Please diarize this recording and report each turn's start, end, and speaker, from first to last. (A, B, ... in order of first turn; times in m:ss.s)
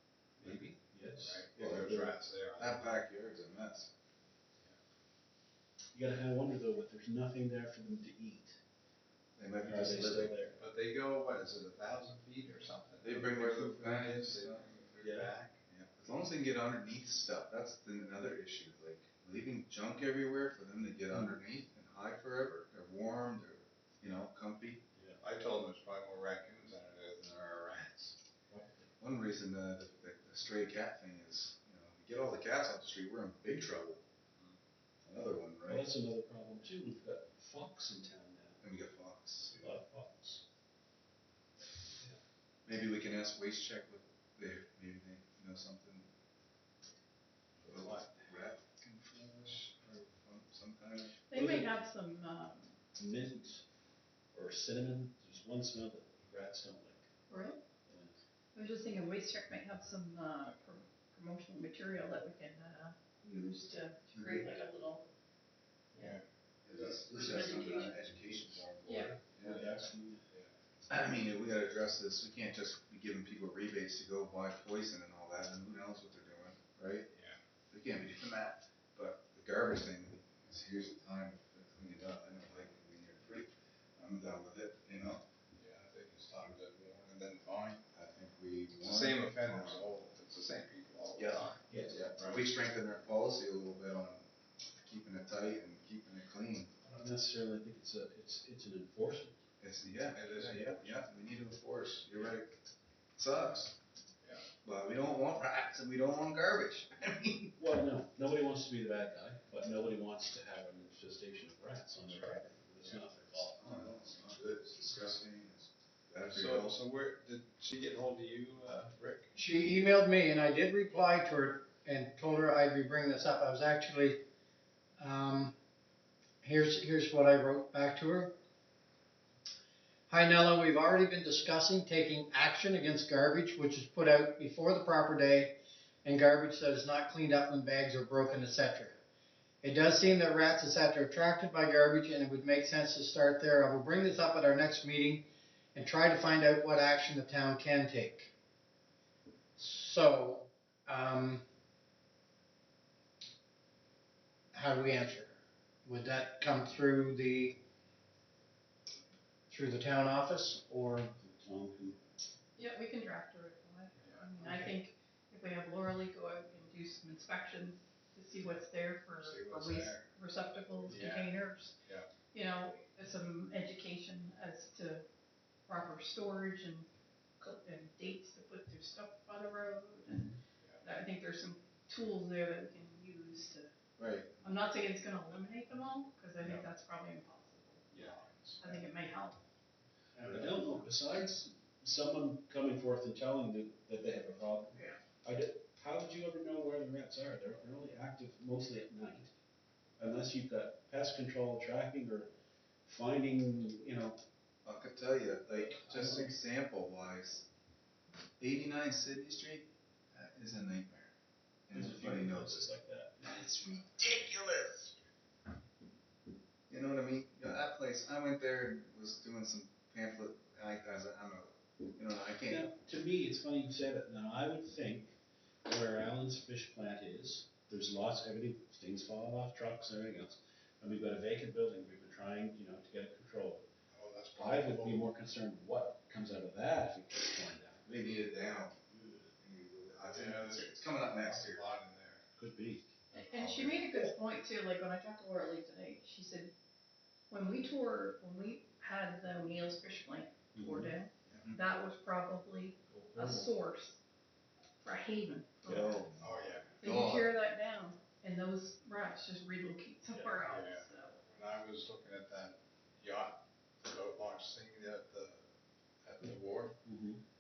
0:00.4-0:03.0 A
0:00.4-0:02.0 B
0:01.6-0:02.0 C
0:02.5-0:03.9 C
0:05.9-0:08.6 B
0:09.4-0:10.4 C
0:09.6-0:10.6 B
0:10.6-0:15.6 A
0:13.0-0:14.6 C
0:15.0-0:15.3 B
0:15.7-0:24.8 C
0:21.1-0:21.4 B
0:25.0-0:25.2 B
0:25.2-0:28.2 A
0:28.5-0:28.9 B
0:29.0-0:34.0 C
0:35.1-0:35.9 C
0:35.7-0:38.6 B
0:38.6-0:39.6 C
0:39.5-0:40.4 B
0:42.7-0:46.1 C
0:47.6-0:51.2 C
0:51.3-0:52.8 D
0:51.3-0:51.7 B
0:53.0-0:53.6 B
0:54.3-0:57.1 B
0:57.3-0:57.6 D
0:57.8-0:58.2 B
0:58.6-1:05.1 D
1:06.0-1:06.2 A
1:06.6-1:09.8 C
1:07.1-1:08.0 D
1:08.9-1:09.2 D
1:09.4-1:10.2 B
1:10.9-1:17.1 C
1:17.1-1:17.4 A
1:17.7-1:25.2 C
1:25.5-1:27.9 A
1:27.9-1:29.8 C
1:28.8-1:32.4 A
1:31.2-1:36.7 C
1:31.7-1:32.1 B
1:36.8-1:39.4 B
1:39.6-1:42.5 C
1:40.0-1:41.0 A
1:43.2-1:43.7 C
1:44.2-1:44.5 A
1:44.6-1:47.6 C
1:47.6-1:54.1 B
1:52.0-1:53.0 A
1:53.6-1:56.7 C
1:56.3-1:59.3 A
1:59.4-2:04.2 E
2:05.0-2:05.5 E
2:06.4-2:08.3 E
2:10.1-2:19.0 E
2:19.6-2:28.3 E
2:29.6-2:31.4 E
2:34.5-2:35.3 E
2:35.8-2:37.6 E
2:39.5-2:41.1 E
2:41.2-2:42.0 B
2:42.6-2:51.8 D
2:49.2-2:50.1 A
2:50.9-2:52.1 A
2:52.3-2:55.0 D
2:55.7-2:56.9 D
2:57.4-3:03.7 D
3:04.0-3:04.3 C
3:04.4-3:07.9 D
3:07.9-3:08.8 A
3:08.6-3:09.4 D
3:10.2-3:19.3 B
3:20.0-3:22.3 B
3:22.9-3:24.2 B
3:24.6-3:27.5 C
3:25.8-3:26.3 B
3:28.4-3:31.1 C
3:31.7-3:34.9 C
3:31.7-3:33.3 B
3:36.7-3:42.7 C
3:42.5-3:45.1 B
3:45.7-3:53.6 B
3:53.9-3:55.1 A
3:54.4-3:57.9 B
3:57.9-3:58.8 C
3:59.4-4:01.6 C
3:59.9-4:02.2 A
4:02.4-4:02.9 B
4:03.1-4:06.5 D
4:03.3-4:03.9 C
4:07.3-4:14.0 D
4:10.6-4:10.9 B
4:12.9-4:13.5 B
4:14.8-4:16.2 D
4:15.7-4:16.3 B
4:16.2-4:17.3 A
4:16.8-4:21.2 D
4:20.4-4:25.4 A
4:26.0-4:26.8 A
4:26.8-4:27.2 B